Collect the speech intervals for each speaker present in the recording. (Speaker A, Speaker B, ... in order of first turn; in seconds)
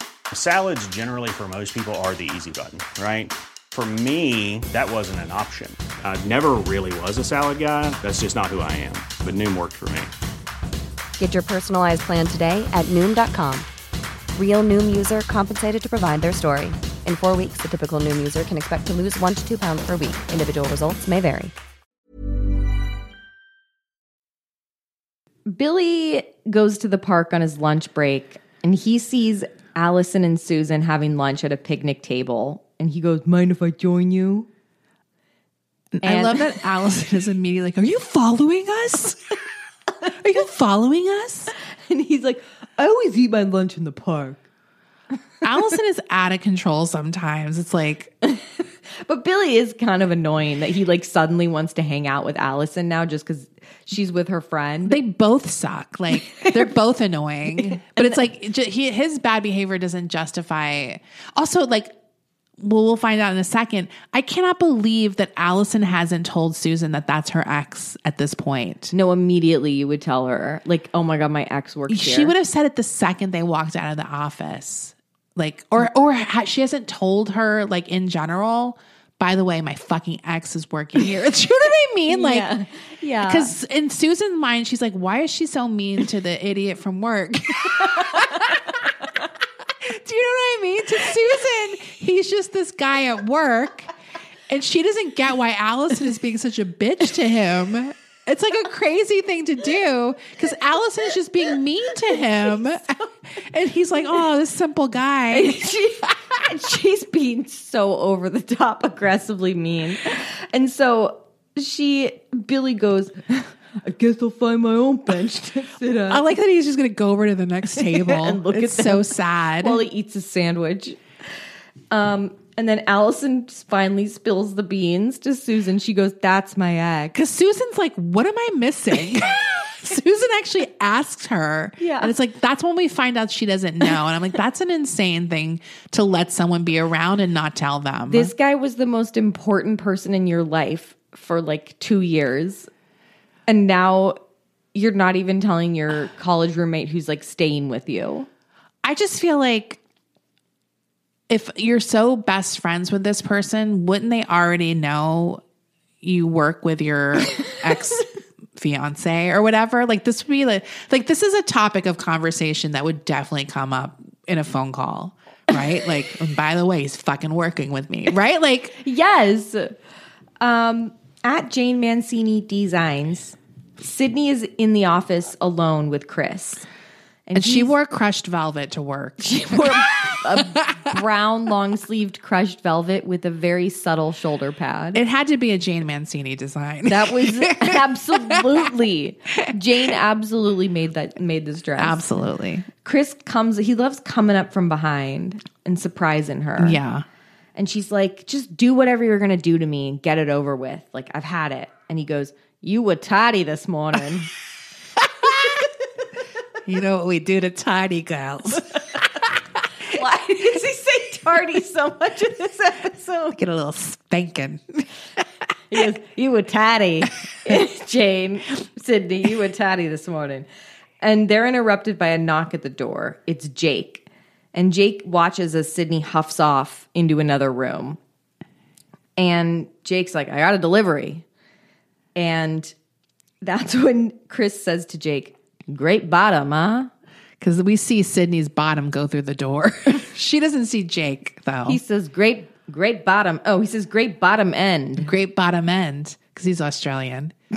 Speaker A: 0.3-10.1
Speaker B: 11.2-13.7, 14.3-21.5
Speaker C: 25.5-34.5, 36.0-36.6, 41.9-44.5, 49.0-55.0, 57.9-58.2, 68.9-72.3, 82.1-83.5, 105.3-116.2, 117.8-121.0, 121.9-127.2, 131.8-132.1, 138.1-142.7, 143.5-144.2, 144.7-148.3, 168.8-169.8, 170.4-176.7, 177.3-177.8, 179.2-185.0, 186.9-192.0, 192.8-196.8, 197.6-204.3, 209.9-213.4, 215.7-220.5, 221.0-228.0, 229.2-231.2, 232.2-232.7, 233.4-236.9, 241.7-245.1
Speaker D: 36.0-39.3, 40.1-41.5, 45.4-48.1, 54.9-61.9, 62.6-68.9, 71.9-82.5, 83.3-88.8, 89.8-93.9, 94.5-105.7, 116.1-119.8, 127.1-138.3, 148.8-149.8, 151.3-155.4, 156.0-168.8, 177.3-180.8, 184.9-188.7, 191.8-192.7, 196.6-197.1, 205.0-205.6, 206.7-209.4, 213.4-214.8, 237.4-241.8, 245.0-247.4